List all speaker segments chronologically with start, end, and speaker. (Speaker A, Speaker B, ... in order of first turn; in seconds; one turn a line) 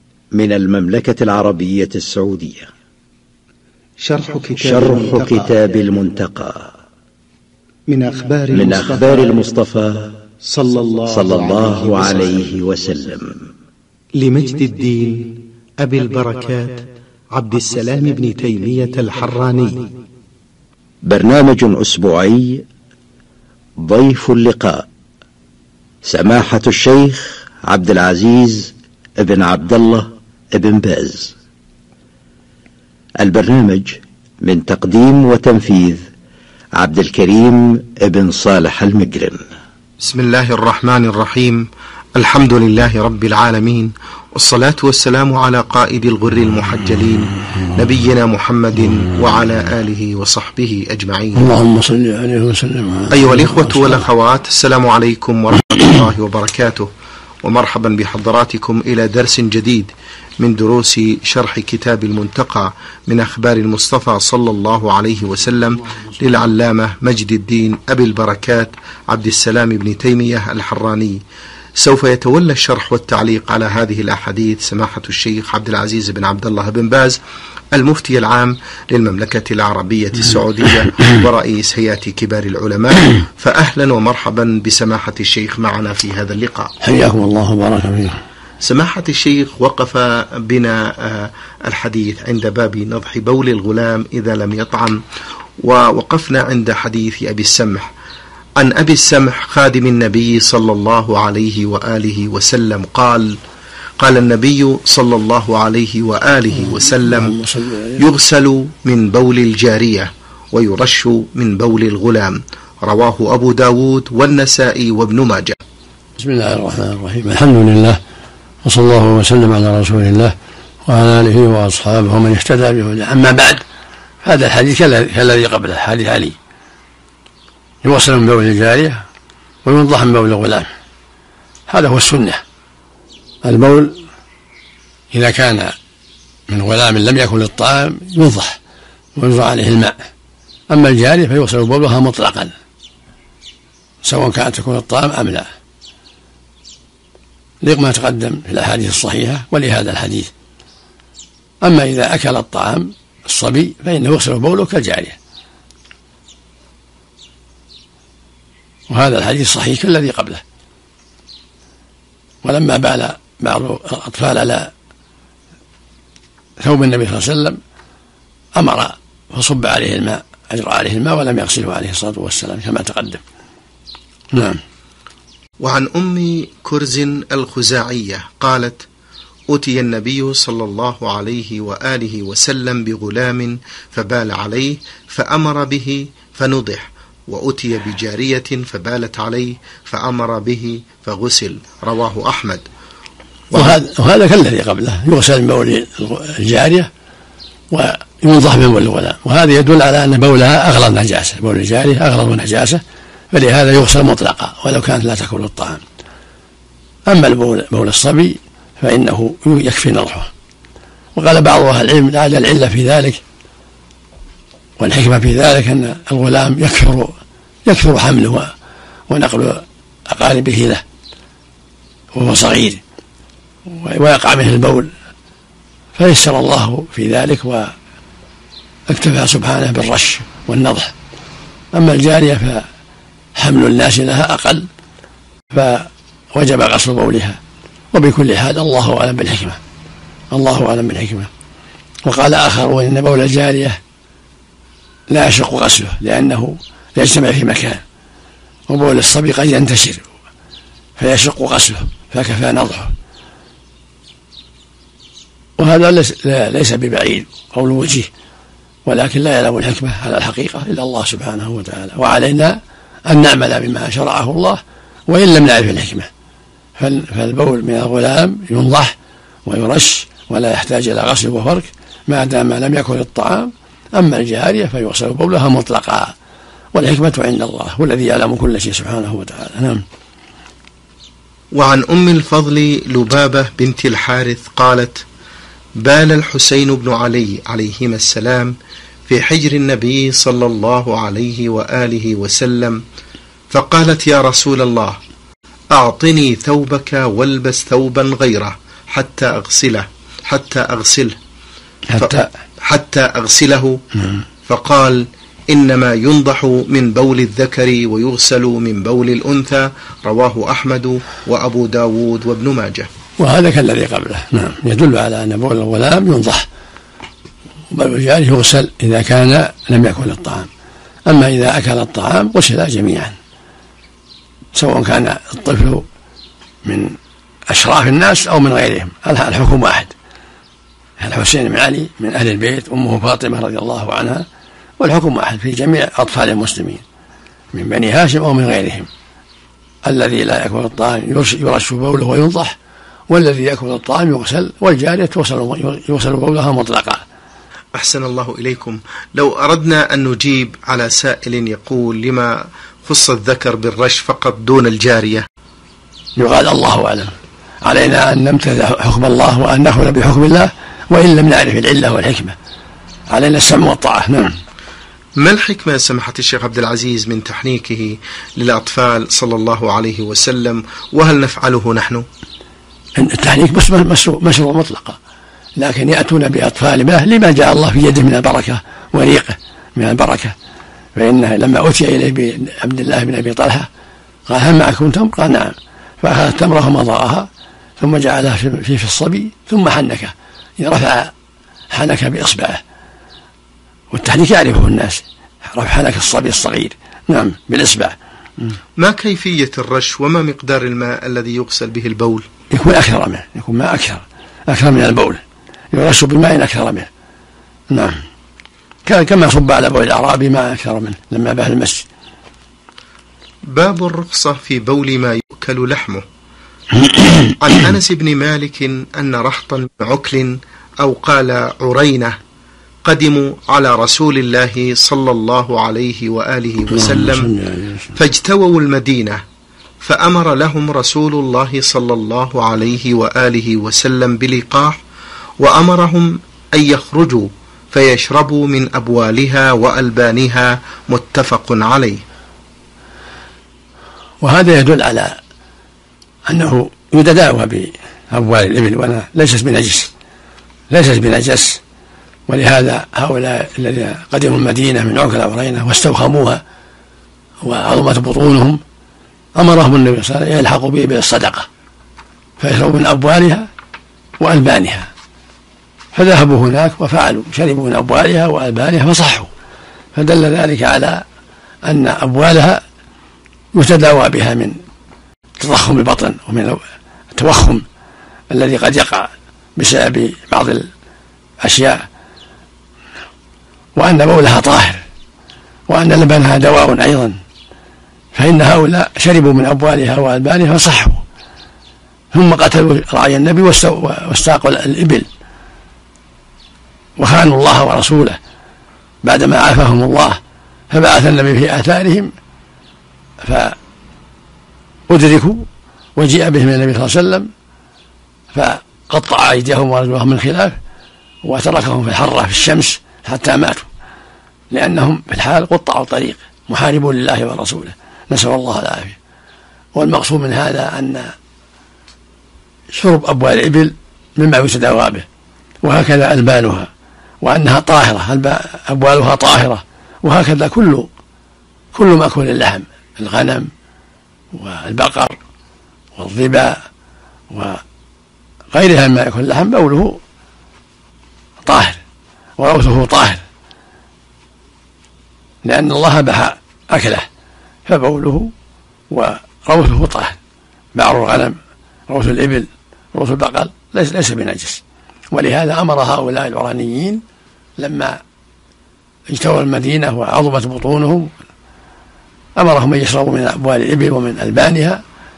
Speaker A: 0.3-2.7
Speaker B: 4.0-5.5
Speaker A: 4.6-6.7
Speaker B: 7.9-9.4
Speaker A: 8.5-10.2
Speaker B: 10.4-12.3
Speaker A: 11.1-13.5
Speaker B: 14.2-19.9
Speaker A: 21.0-22.6
Speaker A: 23.8-24.9
Speaker A: 26.0-31.3
Speaker A: 33.2-36.0
Speaker A: 36.7-39.4
Speaker B: 40.0-51.5
Speaker C: 51.3-54.0
Speaker B: 53.1-56.9
Speaker B: 57.4-71.2
Speaker B: 71.8-77.2
Speaker B: 77.7-86.7
Speaker C: 86.8-88.2
Speaker B: 88.6-95.0
Speaker B: 95.6-97.9
Speaker B: 98.6-103.4
Speaker B: 104.0-107.4
Speaker C: 106.5-108.0
Speaker B: 108.0-115.6
Speaker C: 116.2-118.0
Speaker C: 118.6-120.3
Speaker C: 120.8-123.6
Speaker C: 124.2-126.3
Speaker C: 127.8-129.0
Speaker C: 129.6-130.7
Speaker C: 131.7-132.4
Speaker C: 133.4-134.0
Speaker C: 135.1-135.7
Speaker C: 136.5-138.6
Speaker C: 139.2-140.0
Speaker C: 140.7-142.5
Speaker C: 144.0-145.5
Speaker C: 147.6-150.3
Speaker C: 151.6-155.2
Speaker C: 158.9-160.4
Speaker C: 162.4-164.7
Speaker C: 166.6-167.6
Speaker C: 168.6-173.2
Speaker C: 174.3-174.6
Speaker B: 175.6-178.8
Speaker B: 179.5-192.7
Speaker B: 193.5-193.8
Speaker C: 193.5-196.9
Speaker C: 197.7-205.8
Speaker C: 207.1-210.3
Speaker C: 211.1-213.2
Speaker C: 214.8-217.1
Speaker C: 217.7-218.5
Speaker C: 219.1-220.8
Speaker C: 222.1-222.8
Speaker C: 223.7-224.9
Speaker C: 225.9-227.7
Speaker C: 228.9-230.9
Speaker C: 231.7-232.7
Speaker C: 233.3-234.7
Speaker C: 235.5-237.4
Speaker C: 237.9-239.6
Speaker C: 240.3-241.3
Speaker C: 242.0-243.8
Speaker C: 245.1-247.8
Speaker C: 248.7-250.1
Speaker C: 251.0-252.9
Speaker C: 255.6-258.1
Speaker C: 258.9-266.1
Speaker C: 266.8-268.9
Speaker C: 269.4-276.1
Speaker C: 276.7-279.8
Speaker B: 281.5-285.0
Speaker B: 285.8-288.5
Speaker B: 289.1-292.8
Speaker B: 293.5-295.0
Speaker B: 295.7-301.1
Speaker C: 301.9-302.3
Speaker B: 302.0-303.8
Speaker B: 304.5-312.9
Speaker C: 313.2-316.5
Speaker C: 317.7-320.5
Speaker C: 321.1-323.1
Speaker C: 324.5-325.9
Speaker C: 326.6-327.0
Speaker C: 327.5-329.9
Speaker C: 331.0-334.2
Speaker C: 334.8-336.8
Speaker C: 337.5-338.9
Speaker C: 339.8-342.5
Speaker C: 343.1-347.0
Speaker B: 347.7-355.2
Speaker C: 356.1-357.1
Speaker C: 357.6-362.3
Speaker C: 363.1-364.3
Speaker B: 365.2-372.0
Speaker C: 373.0-375.0
Speaker C: 375.6-380.3
Speaker C: 380.9-383.7
Speaker C: 384.3-387.3
Speaker C: 387.8-391.1
Speaker C: 391.7-392.6
Speaker C: 393.9-398.6
Speaker B: 398.8-402.2
Speaker C: 402.5-406.9
Speaker C: 407.7-408.0
Speaker C: 408.8-411.9
Speaker B: 413.5-416.0
Speaker C: 416.8-417.3
Speaker B: 417.4-422.2
Speaker B: 422.8-427.3
Speaker C: 426.7-427.9
Speaker B: 427.9-429.2
Speaker B: 429.8-434.8
Speaker B: 435.4-442.0
Speaker C: 444.2-445.2
Speaker C: 446.3-449.9
Speaker C: 450.7-451.6
Speaker C: 452.3-456.4
Speaker C: 457.4-458.6
Speaker C: 459.3-461.5
Speaker C: 462.4-463.5
Speaker C: 464.2-464.9
Speaker C: 465.9-469.3
Speaker C: 469.9-471.0
Speaker C: 471.6-472.6
Speaker C: 473.5-474.6
Speaker C: 475.4-476.6
Speaker C: 477.1-477.6
Speaker C: 478.3-480.7
Speaker C: 481.4-481.9
Speaker C: 483.7-484.8
Speaker C: 485.7-487.2
Speaker C: 488.1-491.0
Speaker C: 492.1-495.1
Speaker C: 497.0-498.2
Speaker C: 499.0-502.1
Speaker C: 503.2-503.6
Speaker C: 504.9-507.3
Speaker C: 508.3-510.6
Speaker C: 511.2-513.7
Speaker C: 514.5-519.0
Speaker C: 519.7-521.1
Speaker C: 522.7-525.0
Speaker C: 525.6-526.7
Speaker C: 527.2-530.9
Speaker C: 531.7-533.5
Speaker C: 534.3-535.2
Speaker C: 536.0-536.6
Speaker C: 537.3-537.6
Speaker C: 538.5-540.0
Speaker C: 541.4-541.8
Speaker C: 542.4-543.2
Speaker C: 545.4-547.1
Speaker C: 547.6-548.3
Speaker C: 548.9-550.2
Speaker C: 550.7-554.6
Speaker C: 555.1-557.0
Speaker C: 557.6-558.0
Speaker C: 559.1-561.1
Speaker C: 562.4-564.8